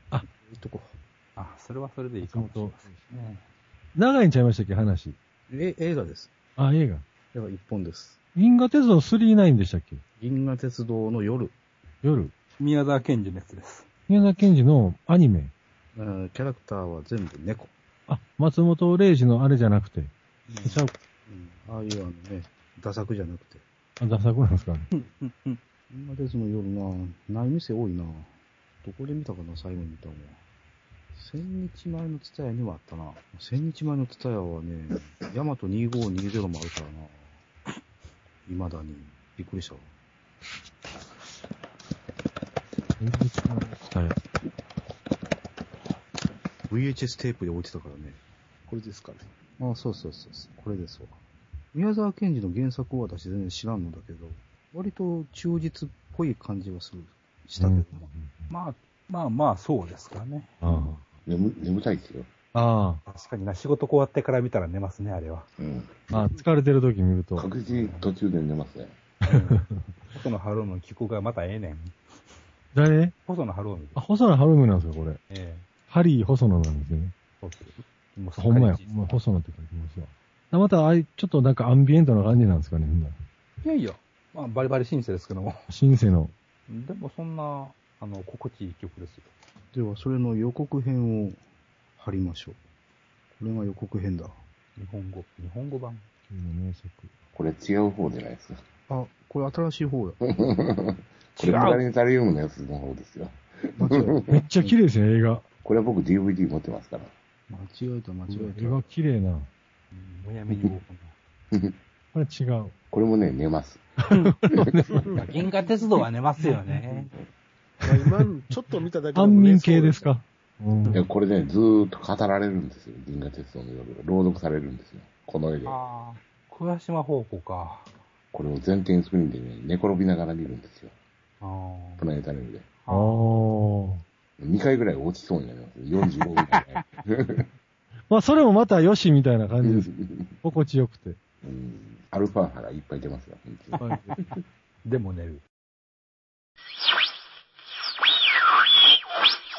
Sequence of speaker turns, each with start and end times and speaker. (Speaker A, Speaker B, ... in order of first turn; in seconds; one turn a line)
Speaker A: 0.3-0.9
Speaker B: 1.4-3.4
Speaker C: 2.2-3.0
Speaker C: 3.9-5.2
Speaker A: 5.5-6.3
Speaker C: 6.6-7.0
Speaker A: 7.3-8.2
Speaker C: 8.3-10.0
Speaker A: 10.2-11.5
Speaker C: 12.0-12.3
Speaker B: 12.6-13.9
Speaker C: 14.1-15.5
Speaker A: 15.9-17.7
Speaker C: 18.1-20.9
Speaker B: 20.5-20.8
Speaker A: 21.3-23.6
Speaker C: 24.0-24.9
Speaker B: 25.0-25.6
Speaker A: 25.9-28.3
Speaker A: 28.8-30.4
Speaker A: 31.1-37.2
Speaker A: 38.5-39.9
Speaker C: 43.0-44.1
Speaker A: 46.7-48.2
Speaker D: 48.7-49.3
Speaker A: 49.6-51.1
Speaker A: 51.7-58.1
Speaker C: 57.6-58.5
Speaker B: 58.5-60.5
Speaker C: 60.6-61.1
Speaker E: 60.7-62.3
Speaker C: 62.5-63.0
Speaker B: 63.1-65.5
Speaker E: 65.6-66.1
Speaker C: 66.1-67.5
Speaker E: 67.3-69.0
Speaker B: 67.7-68.1
Speaker C: 69.2-69.8
Speaker B: 69.3-69.6
Speaker B: 70.1-72.0
Speaker C: 72.7-73.1
Speaker B: 73.2-74.0
Speaker C: 73.9-75.2
Speaker B: 75.3-75.7
Speaker C: 75.9-77.1
Speaker B: 77.4-79.2
Speaker C: 78.4-83.2
Speaker B: 83.6-85.7
Speaker C: 85.7-86.3
Speaker B: 86.7-89.3
Speaker A: 89.7-91.4
Speaker A: 92.0-92.6
Speaker A: 93.3-94.4
Speaker B: 94.8-96.0
Speaker C: 96.3-97.1
Speaker E: 97.3-98.6
Speaker A: 98.9-100.2
Speaker E: 100.2-104.4
Speaker C: 101.4-101.8
Speaker A: 103.8-104.6
Speaker C: 104.3-105.5
Speaker E: 105.6-107.1
Speaker A: 107.5-108.9
Speaker C: 108.3-109.5
Speaker B: 109.9-111.2
Speaker E: 110.5-110.8
Speaker C: 112.1-112.7
Speaker E: 112.9-113.8
Speaker C: 114.1-115.1
Speaker E: 114.5-115.2
Speaker B: 115.1-117.1
Speaker C: 116.4-117.1
Speaker C: 117.8-118.2
Speaker D: 117.8-120.1
Speaker C: 119.1-121.0
Speaker E: 120.9-125.8
Speaker B: 125.6-127.9
Speaker E: 128.3-130.9
Speaker B: 131.4-132.1
Speaker E: 132.0-132.7
Speaker B: 132.8-133.3
Speaker C: 132.9-134.0
Speaker E: 134.4-137.4
Speaker C: 138.1-139.9
Speaker E: 139.6-140.3
Speaker C: 140.4-141.2
Speaker E: 141.4-144.4
Speaker C: 143.8-144.2
Speaker B: 144.8-145.4